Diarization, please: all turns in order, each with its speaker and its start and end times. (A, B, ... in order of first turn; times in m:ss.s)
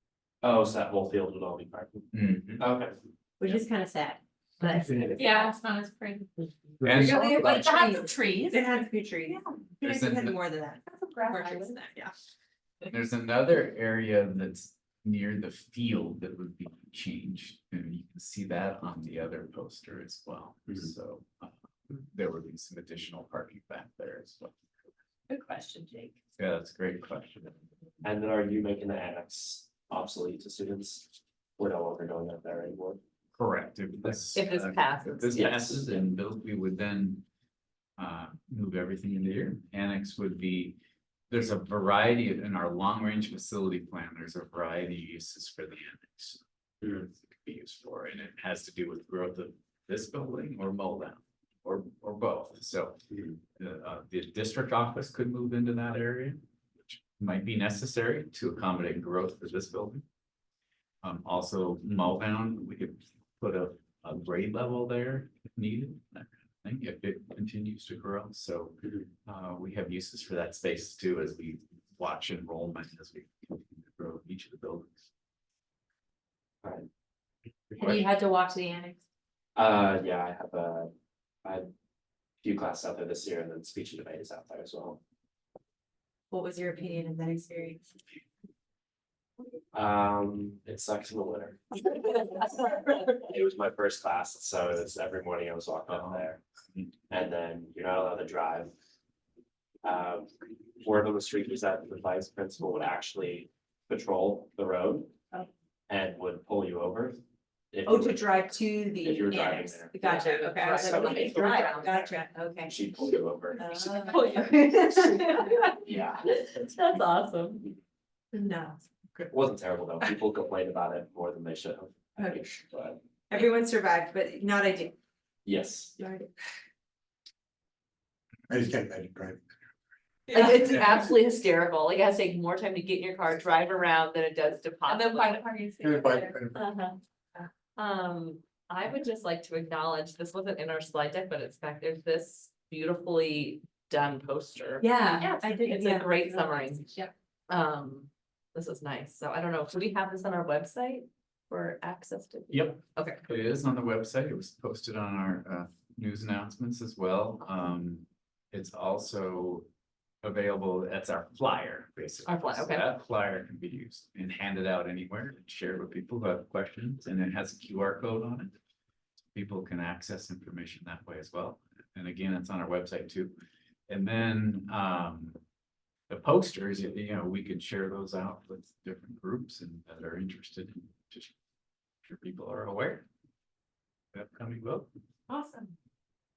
0:00.4-0:03.0 A
0:02.1-0:02.6 B
0:03.4-0:05.6 C
0:05.2-0:08.7 D
0:06.8-0:07.6 E
0:06.8-0:07.9 B
0:07.6-0:12.1 C
0:09.8-0:10.4 B
0:10.9-0:11.7 D
0:12.9-0:24.6 B
0:25.3-0:26.1 D
0:26.4-0:27.6 B
0:28.0-0:33.0 A
0:33.3-0:37.2 B
0:34.3-0:35.6 F
0:35.3-0:36.0 A
0:38.0-0:40.8 B
0:41.3-0:53.0 B
0:53.1-0:53.4 A
0:53.5-1:00.0 B
1:01.0-1:14.9 B
1:16.6-1:16.9 A
1:17.7-1:18.0 B
1:17.8-1:18.1 A
1:17.8-1:19.0 D
1:19.6-1:20.9 A
1:21.4-1:21.7 A
1:22.4-1:25.0 A
1:26.3-1:27.9 C
1:29.7-1:31.9 A
1:33.2-1:36.4 A
1:35.9-1:36.2 B
1:37.1-1:38.7 A
1:39.8-1:45.2 A
1:45.9-1:47.2 A
1:47.7-1:52.1 A
1:47.8-1:52.7 C
1:50.0-1:52.1 F
1:52.7-1:54.3 A
1:53.6-1:55.6 C
1:54.0-1:57.7 F
1:55.8-1:56.2 A
1:58.3-1:58.8 C
1:59.3-2:03.0 A
2:02.2-2:02.4 C
2:03.3-2:04.9 C
2:05.4-2:06.0 A
2:06.0-2:06.3 C
2:08.5-2:09.5 E
2:10.3-2:10.6 D
2:10.3-2:15.6 F
2:10.3-2:10.7 C
2:10.6-2:10.9 E
2:14.8-2:16.4 D
2:15.8-2:16.6 E
2:16.5-2:17.0 F
2:17.8-2:26.9 F
2:24.8-2:27.0 C
2:27.5-2:33.2 F
2:32.5-2:39.7 B
2:40.2-2:48.5 B
2:42.2-2:42.9 F
2:49.3-2:53.3 B
2:53.9-2:55.4 B
2:56.1-3:01.3 B
3:02.0-3:03.1 B
3:04.1-3:04.9 B
3:05.3-3:05.7 D